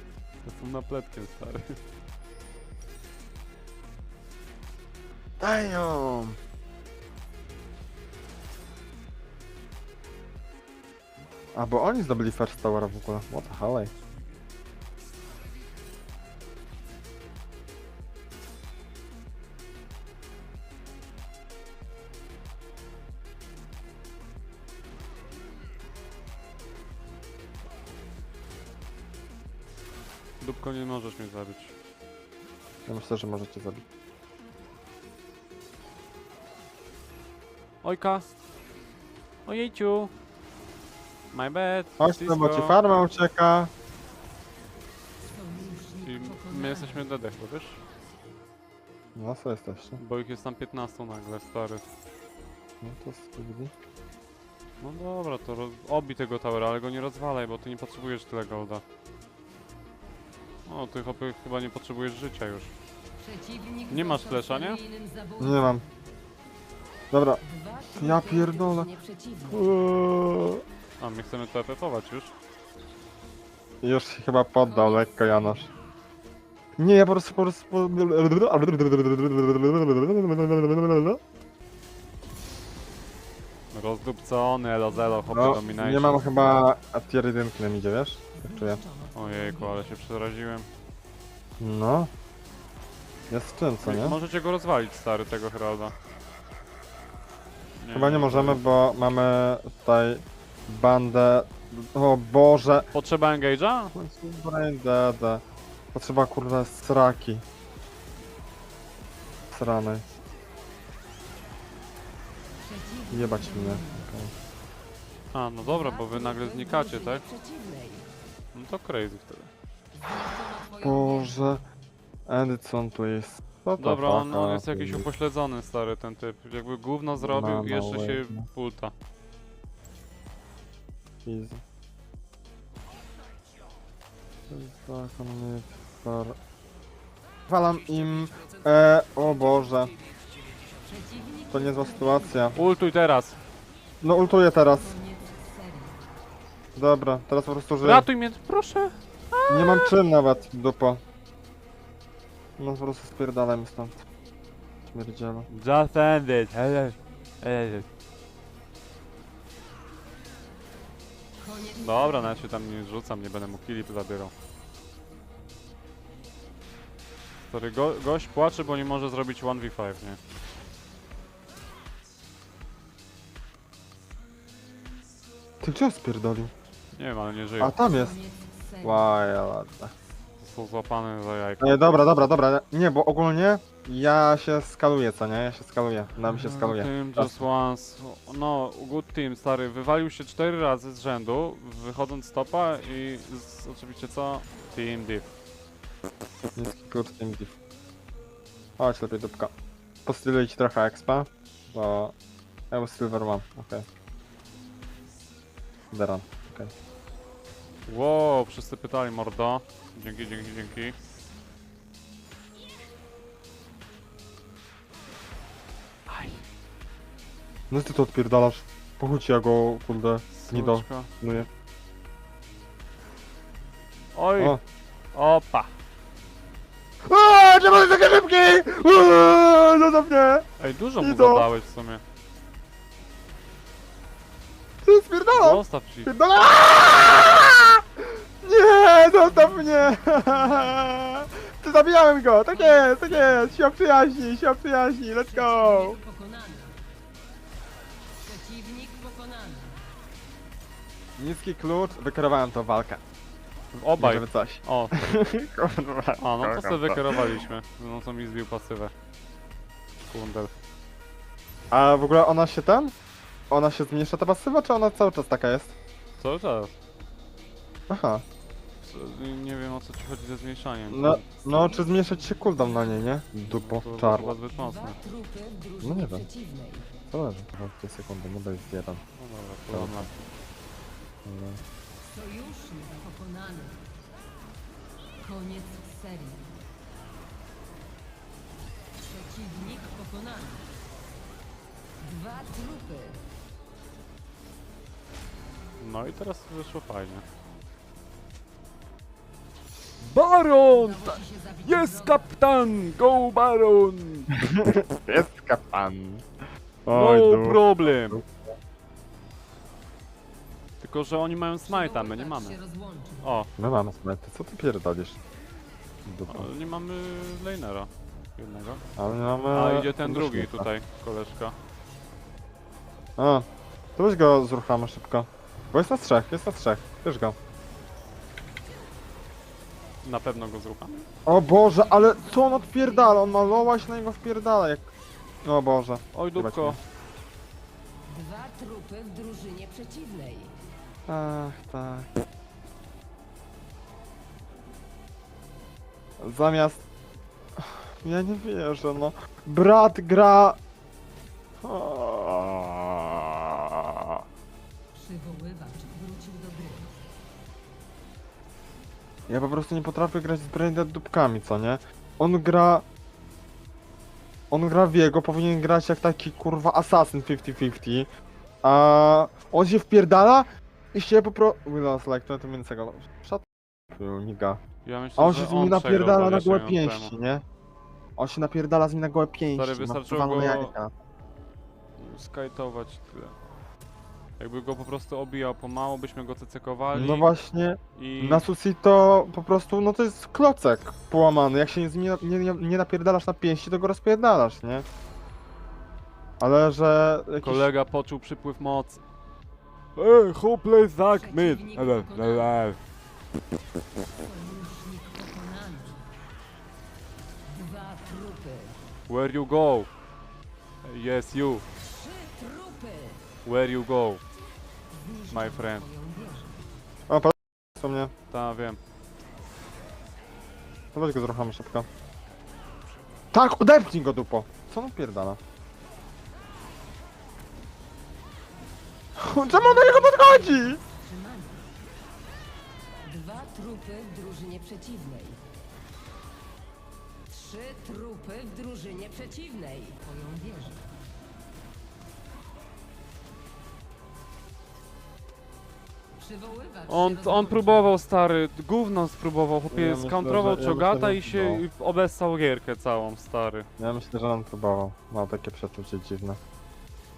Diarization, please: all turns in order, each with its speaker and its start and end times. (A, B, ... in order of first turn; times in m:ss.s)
0:00.4-0:01.8 A
0:05.4-0:06.4 B
0:11.5-0:13.9 B
0:30.4-0:31.7 A
0:32.8-0:33.8 B
0:37.8-0:38.2 A
0:39.4-0:40.1 A
0:41.3-0:42.8 A
0:42.0-0:43.7 B
0:45.3-0:47.0 C
0:46.0-0:47.8 A
0:49.2-0:50.0 B
0:50.0-0:51.8 A
0:52.8-0:53.7 B
0:54.8-0:58.8 A
1:00.6-1:02.7 A
1:03.2-1:06.0 C
1:03.9-1:04.8 A
1:05.4-1:05.8 B
1:07.1-1:08.9 B
1:07.4-1:09.8 C
1:09.5-1:10.6 B
1:11.0-1:12.3 A
1:13.8-1:15.7 B
1:14.6-1:15.7 C
1:16.8-1:21.2 B
1:23.7-1:26.3 A
1:25.0-1:25.8 C
1:25.3-1:28.8 B
1:28.4-1:29.9 C
1:29.1-1:30.7 A
1:31.6-1:32.1 B
1:33.3-1:34.2 B
1:33.8-1:35.9 A
1:37.8-1:38.6 A
1:37.9-1:42.9 B
1:42.9-1:43.9 A
1:43.9-1:45.4 B
1:45.9-1:47.4 B
1:49.5-1:50.0 B
1:52.6-1:54.0 C
1:53.1-1:54.3 B
1:55.3-1:57.2 A
1:55.6-1:58.1 C
1:58.5-1:59.5 A
2:00.0-2:01.3 C
2:00.8-2:01.6 B
2:02.3-2:05.1 B
2:03.8-2:08.9 A
2:07.2-2:08.5 B
2:11.2-2:11.6 B
2:14.5-2:16.4 B
2:17.5-2:19.9 B
2:20.8-2:22.6 C
2:21.5-2:22.6 B
2:22.5-2:23.4 A
2:24.0-2:25.0 B
2:24.6-2:26.0 C
2:26.8-2:28.1 B
2:27.8-2:29.9 A
2:29.5-2:31.0 B
2:32.6-2:34.0 B
2:34.9-2:35.5 B
2:35.5-2:37.8 A
2:41.4-2:42.4 C
2:41.8-2:44.3 A
2:47.4-2:50.2 A
2:55.6-2:56.5 B
2:56.9-2:57.8 A
2:57.6-2:58.2 B
2:57.8-2:59.1 C
2:58.8-2:59.9 B
3:00.4-3:02.0 A
3:01.6-3:07.3 B
3:06.2-3:15.3 A
3:16.6-3:17.5 B
3:18.8-3:19.5 B
3:20.0-3:22.1 B
3:22.7-3:23.8 B
3:25.9-3:26.7 B
3:27.9-3:31.0 A
3:36.1-3:36.4 A
3:37.7-3:41.5 B
3:40.3-3:41.1 A
3:44.1-3:44.6 A
3:45.1-3:45.7 A
3:47.0-3:50.4 B
3:50.6-3:52.0 A
3:51.0-3:51.5 B
3:54.8-3:57.8 B
3:55.3-3:56.1 A
3:58.4-4:06.0 B
3:59.2-4:00.9 C
4:02.5-4:03.6 C
4:05.2-4:06.8 C
4:08.2-4:09.8 C
4:11.2-4:13.0 B
4:13.7-4:14.9 A
4:14.0-4:17.4 B
4:16.2-4:18.9 A
4:20.1-4:20.5 A
4:21.7-4:22.9 B
4:23.5-4:25.7 B
4:26.2-4:26.7 A
4:27.9-4:28.2 B
4:28.8-4:31.2 A
4:30.9-4:34.4 B
4:31.4-4:33.1 C
4:33.4-4:35.0 A
4:34.5-4:36.9 C
4:35.8-4:36.2 B
4:37.1-4:39.0 B
4:39.1-4:40.1 A
4:39.7-4:40.1 B
4:41.2-4:41.6 B
4:42.0-4:43.8 C
4:45.2-4:46.4 C
4:49.0-4:50.6 C
4:52.0-4:53.2 C
4:55.8-4:57.2 A
5:00.0-5:04.3 A
5:00.7-5:02.3 C
5:04.3-5:06.3 B
5:06.8-5:08.3 B
5:06.9-5:08.2 A
5:10.8-5:12.6 A
5:11.7-5:13.3 C
5:13.2-5:13.5 A
5:13.6-5:15.2 B
5:16.0-5:16.5 B
5:16.3-5:18.8 A
5:19.0-5:20.7 B
5:19.5-5:21.6 A
5:23.2-5:27.4 B
5:30.0-5:31.0 A
5:31.2-5:34.9 B
5:31.8-5:33.8 C
5:35.4-5:36.8 B
5:36.1-5:36.8 A
5:38.1-5:40.5 C
5:41.1-5:42.1 B
5:46.2-5:46.8 B
5:47.6-5:50.6 B
5:51.6-5:54.2 B
5:54.9-5:57.0 C
5:59.3-6:02.8 B
6:04.5-6:08.1 B
6:08.6-6:14.6 B
6:14.8-6:17.1 A
6:15.2-6:17.4 B
6:18.2-6:20.9 B
6:19.5-6:20.7 A
6:22.0-6:23.4 A
6:24.4-6:27.3 A
6:26.9-6:34.8 B
6:28.0-6:28.5 A
6:36.4-6:37.7 B
6:37.4-6:39.0 A
6:40.0-6:42.8 A
6:41.1-6:42.5 C
6:44.1-6:46.0 C
6:47.5-6:48.8 C
6:49.1-6:49.9 A
6:50.8-6:51.6 A
6:51.8-6:53.2 C
6:53.4-6:54.2 A
6:54.9-6:56.6 C
6:55.3-6:55.9 A
6:57.1-6:58.1 B
6:58.3-6:58.8 A
7:00.9-7:01.9 B
7:03.3-7:05.4 B
7:09.2-7:10.8 B
7:09.3-7:11.7 C
7:13.0-7:15.4 C
7:17.3-7:20.8 C
7:26.2-7:27.9 C
7:26.9-7:33.7 A
7:29.7-7:31.6 B
7:33.8-7:36.4 B